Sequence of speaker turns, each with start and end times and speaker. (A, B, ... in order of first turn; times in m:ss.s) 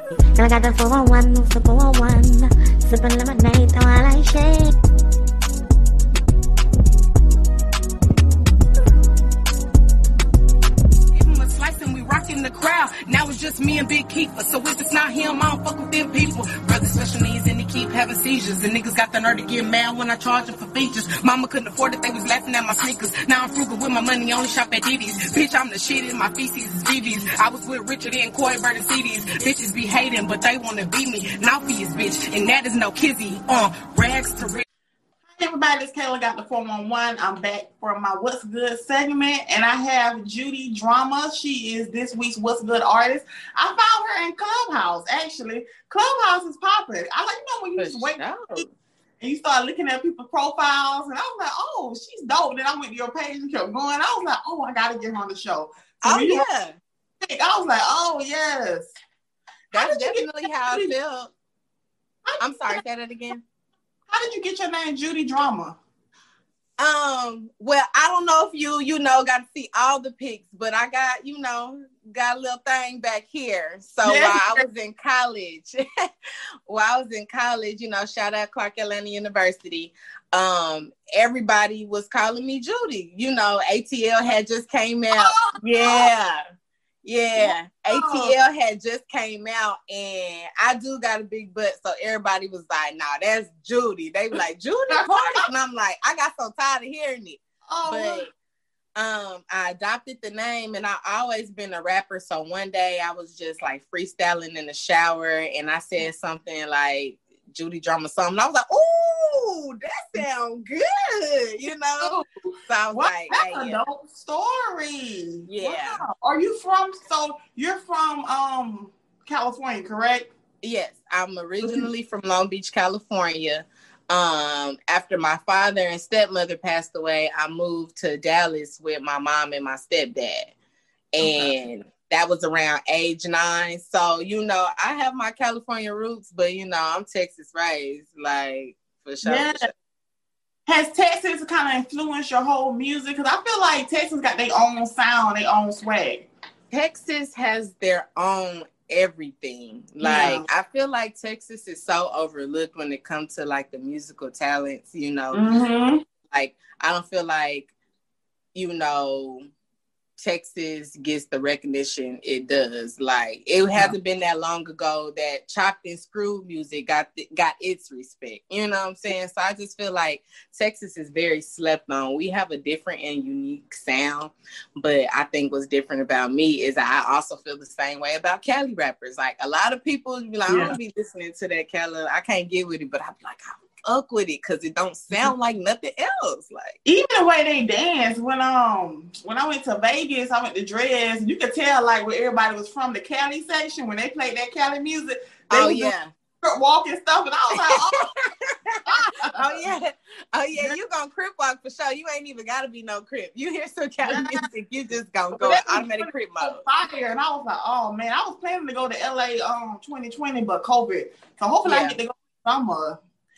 0:00.4-0:04.7 A
0:11.1-0:34.6 B
0:35.4-0:48.7 C
0:47.8-0:48.7 D
0:49.2-0:56.4 C
0:56.0-0:56.8 D
0:57.2-0:58.9 C
0:59.7-1:01.3 D
0:59.7-1:00.9 C
1:02.3-1:02.8 C
1:02.4-1:03.4 D
1:04.1-1:05.8 C
1:06.8-1:15.8 D
1:14.0-1:14.6 C
1:16.7-1:26.4 D
1:25.1-1:26.1 C
1:27.0-1:38.3 D
1:27.4-1:28.4 C
1:34.9-1:35.5 C
1:37.7-1:38.3 C
1:39.0-1:52.2 D
1:52.0-1:52.3 C
1:52.7-1:53.8 D
1:52.9-2:00.3 C
1:55.5-1:56.0 D
2:00.6-2:10.5 D
2:01.6-2:01.9 C
2:11.1-2:19.7 D
2:11.2-2:11.5 C
2:19.2-2:19.7 C
2:20.7-2:26.3 C
2:26.7-2:35.4 D
2:30.0-2:30.5 C
2:35.3-2:36.0 C
2:36.3-2:37.7 D
2:38.6-2:39.5 D
2:40.2-3:06.8 D
3:00.5-3:00.8 C
3:06.8-3:18.1 C
3:15.5-3:16.1 D
3:17.5-3:26.6 D
3:18.9-3:19.6 C
3:24.0-3:24.5 C
3:25.4-3:33.0 C
3:31.6-3:32.0 D